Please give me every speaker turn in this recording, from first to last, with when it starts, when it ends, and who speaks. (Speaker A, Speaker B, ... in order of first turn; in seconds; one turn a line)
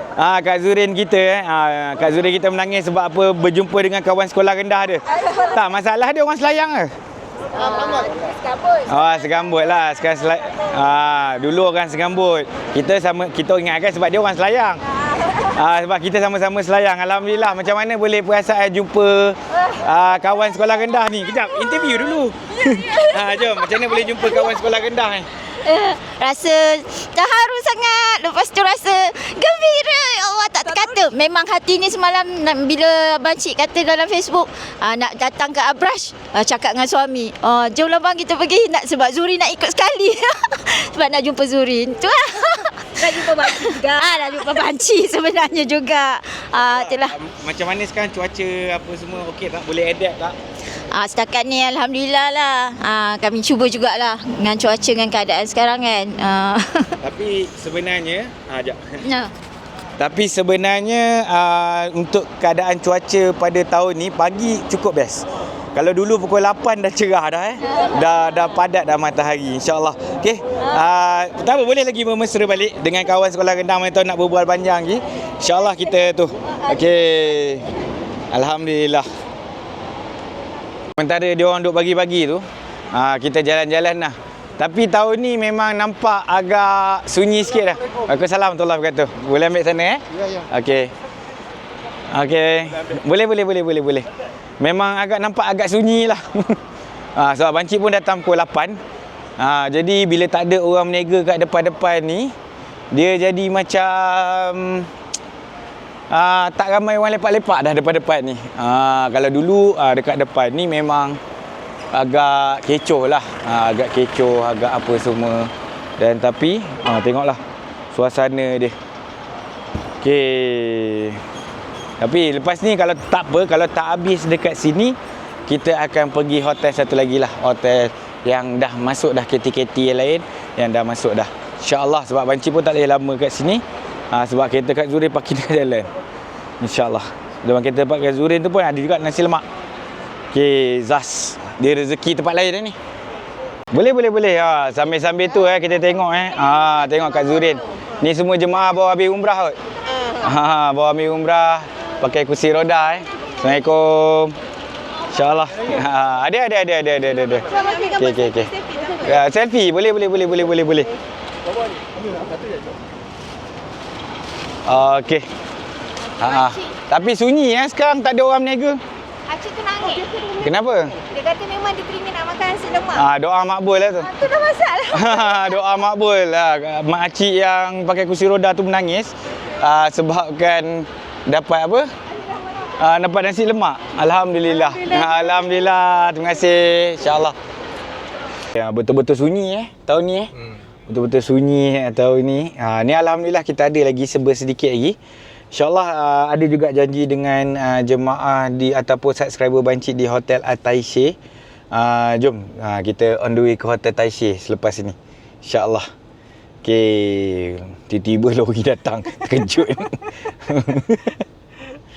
Speaker A: 0.2-6.9
Speaker A: 8.8-25.3
Speaker B: 25.5-47.1
Speaker A: 46.6-50.4
Speaker B: 50.8-57.0
Speaker A: 57.0-59.0
Speaker B: 59.0-59.3
Speaker A: 60.0-77.7
Speaker A: 78.3-79.1
Speaker A: 81.0-90.9
Speaker A: 92.1-94.1
Speaker A: 94.6-96.6
Speaker A: 97.2-98.8
Speaker A: 99.4-102.3
Speaker A: 102.9-104.9
Speaker A: 106.1-111.2
Speaker A: 111.9-117.4
Speaker A: 117.9-118.8
Speaker A: 120.0-121.2
Speaker A: 122.0-135.9
Speaker A: 136.6-139.4
Speaker A: 140.3-142.8
Speaker A: 143.7-149.6
Speaker A: 150.2-154.3
Speaker A: 155.1-160.9
Speaker A: 164.7-165.3
Speaker A: 166.2-168.8
Speaker C: 169.3-170.0
Speaker A: 170.4-171.0
Speaker C: 171.1-172.8
Speaker A: 172.9-174.3
Speaker A: 174.8-181.9
Speaker A: 182.8-187.4
Speaker A: 188.5-190.3
Speaker A: 190.9-195.0
Speaker A: 195.5-201.2
Speaker A: 201.7-205.9
Speaker A: 206.6-211.2